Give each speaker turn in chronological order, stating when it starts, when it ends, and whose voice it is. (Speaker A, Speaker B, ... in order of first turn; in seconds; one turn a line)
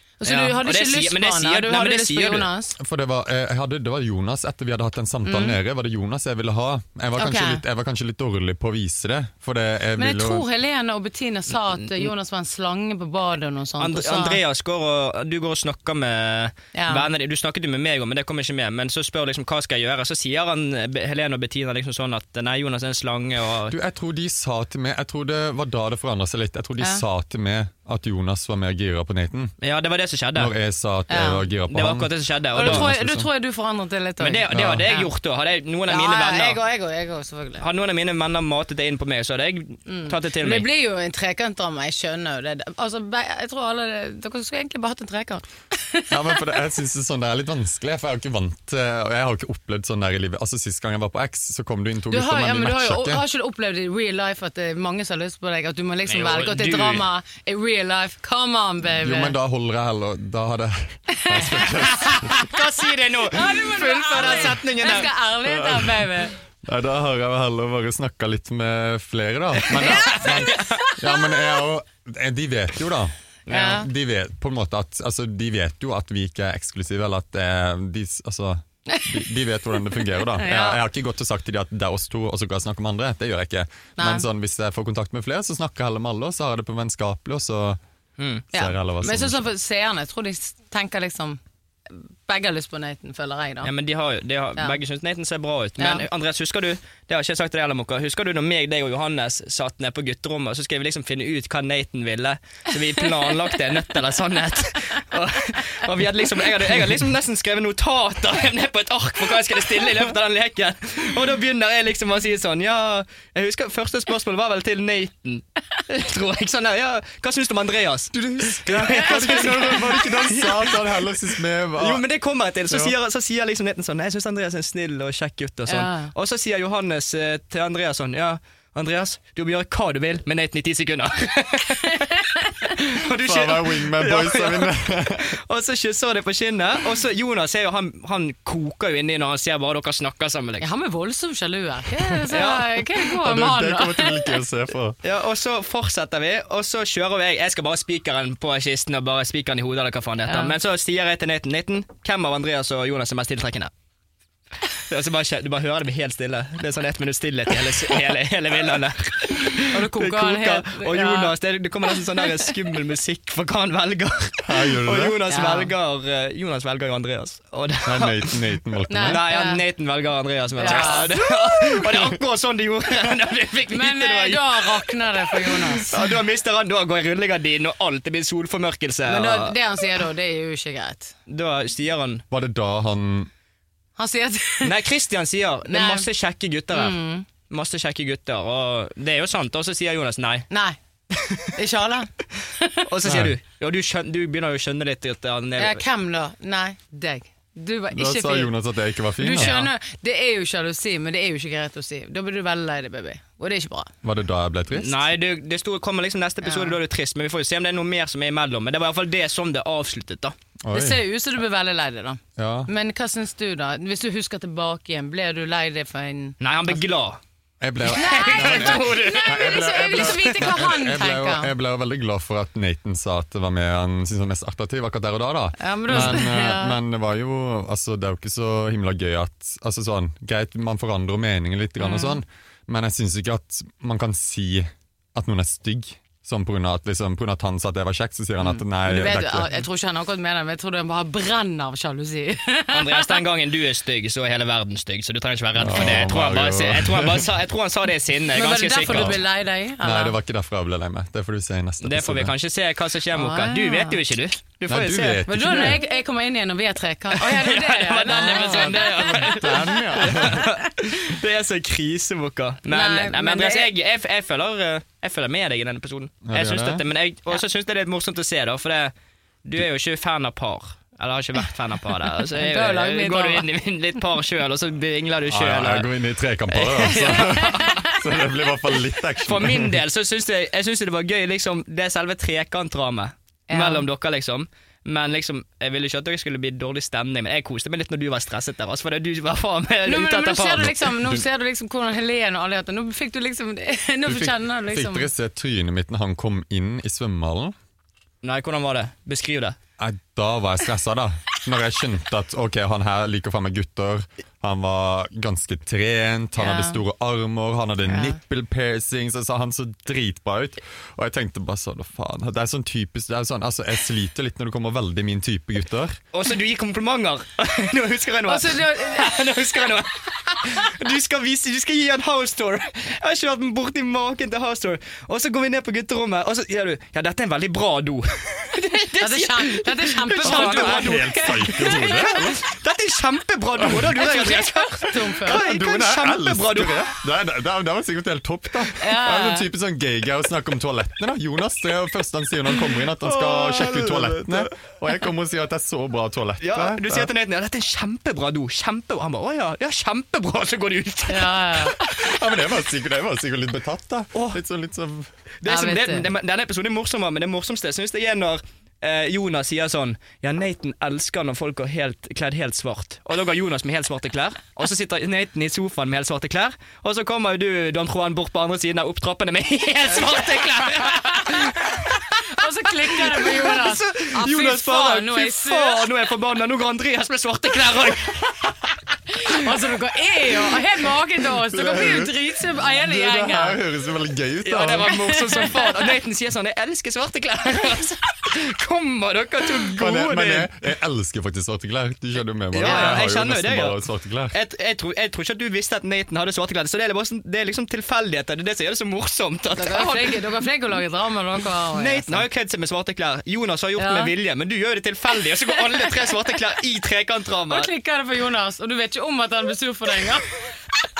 Speaker A: 0.2-2.8
Speaker B: 0.2-2.5
Speaker C: 2.8-10.4
Speaker A: 5.2-5.6
Speaker A: 7.2-7.6
Speaker A: 10.0-14.4
Speaker B: 13.8-23.7
Speaker A: 16.7-17.1
Speaker C: 23.7-29.5
Speaker B: 29.6-30.5
Speaker C: 30.3-33.3
Speaker A: 31.1-31.5
Speaker B: 31.7-32.9
Speaker A: 32.5-35.1
Speaker B: 34.2-36.6
Speaker C: 34.5-34.9
Speaker A: 35.9-37.6
Speaker B: 37.6-40.7
Speaker A: 39.9-46.4
Speaker C: 46.1-53.2
Speaker A: 52.1-59.4
Speaker B: 56.1-57.1
Speaker C: 59.0-62.5
Speaker A: 61.1-62.5
Speaker B: 61.6-65.1
Speaker A: 63.2-66.3
Speaker C: 65.5-87.8
Speaker A: 69.7-71.5
Speaker B: 69.8-70.8
Speaker B: 73.5-73.8
Speaker A: 73.5-73.9
Speaker A: 78.9-80.8
Speaker A: 84.0-84.3
Speaker B: 88.2-88.4
Speaker C: 88.5-89.4
Speaker A: 88.5-93.7
Speaker B: 93.6-121.2
Speaker A: 95.8-96.0
Speaker C: 118.1-122.0
Speaker A: 118.9-119.9
Speaker B: 121.8-140.7
Speaker C: 122.7-122.9
Speaker A: 125.7-126.1
Speaker A: 132.0-132.7
Speaker C: 133.1-135.4
Speaker A: 140.6-144.4
Speaker B: 142.3-142.8
Speaker C: 143.2-145.0
Speaker B: 145.0-153.7
Speaker A: 150.3-150.5
Speaker B: 154.9-168.4
Speaker A: 159.5-161.3
Speaker A: 162.2-162.5
Speaker C: 164.4-165.2
Speaker A: 165.3-165.7
Speaker C: 167.8-169.2
Speaker A: 168.9-169.6
Speaker B: 169.0-179.6
Speaker A: 170.6-171.1
Speaker C: 170.7-172.1
Speaker A: 173.7-175.9
Speaker A: 179.1-181.1
Speaker B: 181.3-182.2
Speaker C: 182.3-183.3
Speaker A: 184.0-184.8
Speaker B: 184.6-190.5
Speaker A: 185.7-186.1
Speaker A: 186.7-187.3
Speaker A: 190.5-190.8
Speaker B: 191.1-191.5
Speaker A: 191.5-192.8
Speaker B: 192.8-195.8
Speaker C: 193.0-193.3
Speaker A: 195.6-198.5
Speaker C: 197.9-199.6
Speaker A: 199.2-203.9
Speaker B: 199.4-199.7
Speaker C: 204.0-205.1
Speaker B: 204.7-210.3
Speaker A: 206.4-206.8
Speaker C: 210.6-211.0
Speaker A: 210.7-216.8
Speaker C: 212.3-212.7
Speaker B: 216.4-217.2
Speaker C: 217.6-239.6
Speaker B: 217.9-220.3
Speaker A: 217.9-221.5
Speaker A: 225.6-226.8
Speaker A: 231.8-232.2
Speaker A: 238.5-243.2
Speaker B: 242.7-249.2
Speaker C: 245.6-247.3
Speaker A: 248.3-250.2
Speaker C: 248.9-249.2
Speaker C: 249.8-252.3
Speaker B: 251.8-255.7
Speaker A: 253.1-254.0
Speaker C: 254.7-255.8
Speaker A: 255.3-260.4
Speaker B: 257.2-268.9
Speaker C: 258.1-260.5
Speaker A: 262.7-263.7
Speaker C: 266.2-266.8
Speaker B: 269.4-275.9
Speaker A: 272.3-273.4
Speaker C: 275.3-279.8
Speaker B: 276.5-277.9
Speaker A: 277.1-277.9
Speaker B: 279.2-290.9
Speaker A: 283.5-283.8
Speaker A: 289.9-295.1
Speaker C: 294.1-297.5
Speaker B: 298.2-299.6
Speaker C: 299.8-316.0
Speaker A: 306.4-306.8
Speaker A: 307.9-308.2
Speaker B: 316.1-336.9
Speaker A: 318.2-319.4
Speaker A: 329.0-332.3
Speaker C: 330.2-332.4
Speaker C: 333.6-333.9
Speaker A: 333.9-335.4
Speaker C: 335.3-347.1
Speaker A: 338.8-339.4
Speaker B: 343.0-344.7
Speaker B: 346.4-352.1
Speaker A: 351.1-351.8
Speaker C: 351.9-355.1
Speaker B: 355.4-378.5
Speaker A: 355.4-356.1
Speaker A: 370.0-375.9
Speaker A: 379.1-383.6
Speaker C: 381.5-384.9
Speaker B: 384.4-390.5
Speaker A: 384.9-385.9
Speaker C: 389.8-394.4
Speaker B: 392.5-393.8
Speaker A: 392.6-393.0
Speaker B: 394.3-400.2
Speaker A: 399.6-402.2
Speaker B: 401.7-407.7
Speaker A: 403.8-404.1
Speaker A: 405.6-406.1
Speaker A: 407.5-410.3